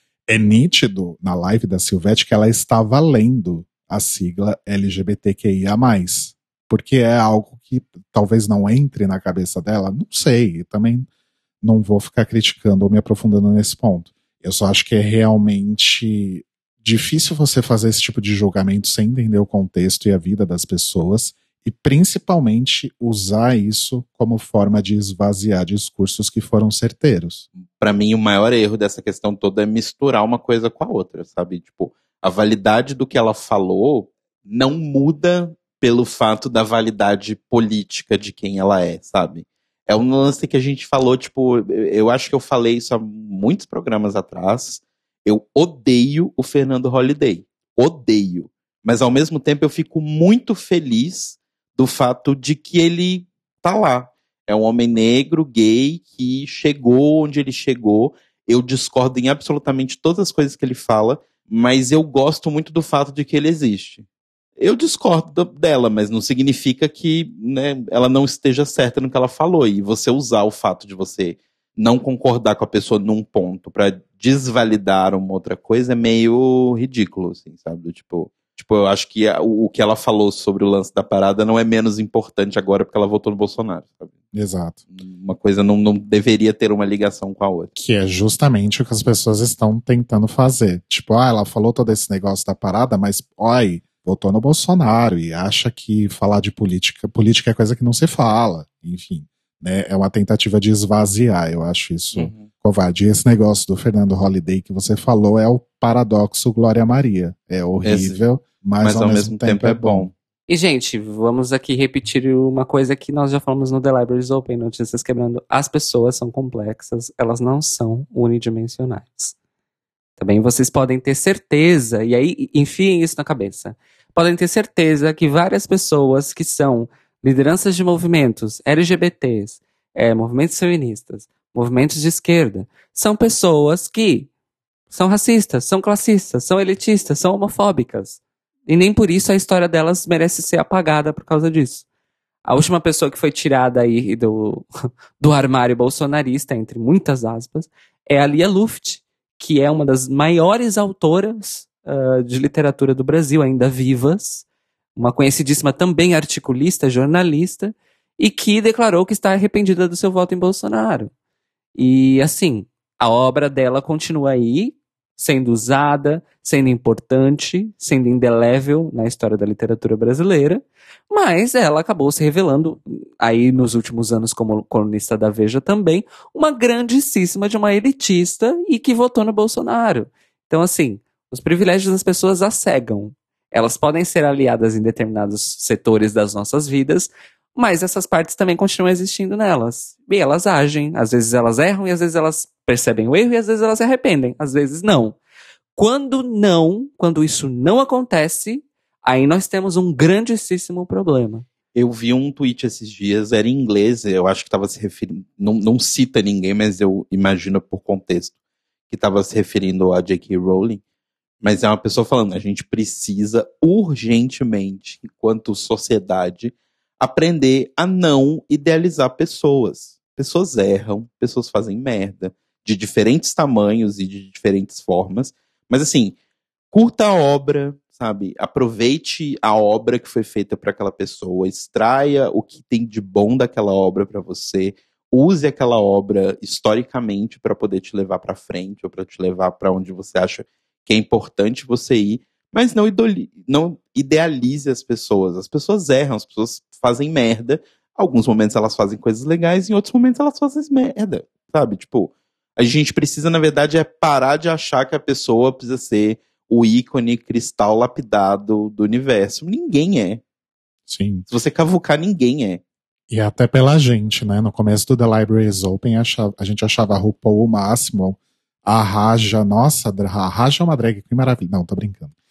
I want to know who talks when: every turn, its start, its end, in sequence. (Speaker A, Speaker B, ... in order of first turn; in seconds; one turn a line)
Speaker A: 0.3-11.1
Speaker A: 11.6-27.5
Speaker B: 27.8-64.1
Speaker B: 64.6-84.1
Speaker A: 84.3-84.8
Speaker B: 84.9-87.7
Speaker A: 87.8-110.1
Speaker B: 102.1-102.5
Speaker B: 107.8-108.2
Speaker B: 108.8-110.1
Speaker C: 110.5-119.3
Speaker C: 120.2-134.3
Speaker C: 134.9-141.8
Speaker C: 142.5-144.6
Speaker C: 145.2-161.1
Speaker C: 161.8-195.2
Speaker C: 195.8-201.5
Speaker B: 201.7-208.3
Speaker B: 208.9-210.8
Speaker B: 211.4-226.2
Speaker B: 226.7-260.2
Speaker A: 260.9-261.2
Speaker B: 261.3-262.6
Speaker A: 263.1-272.1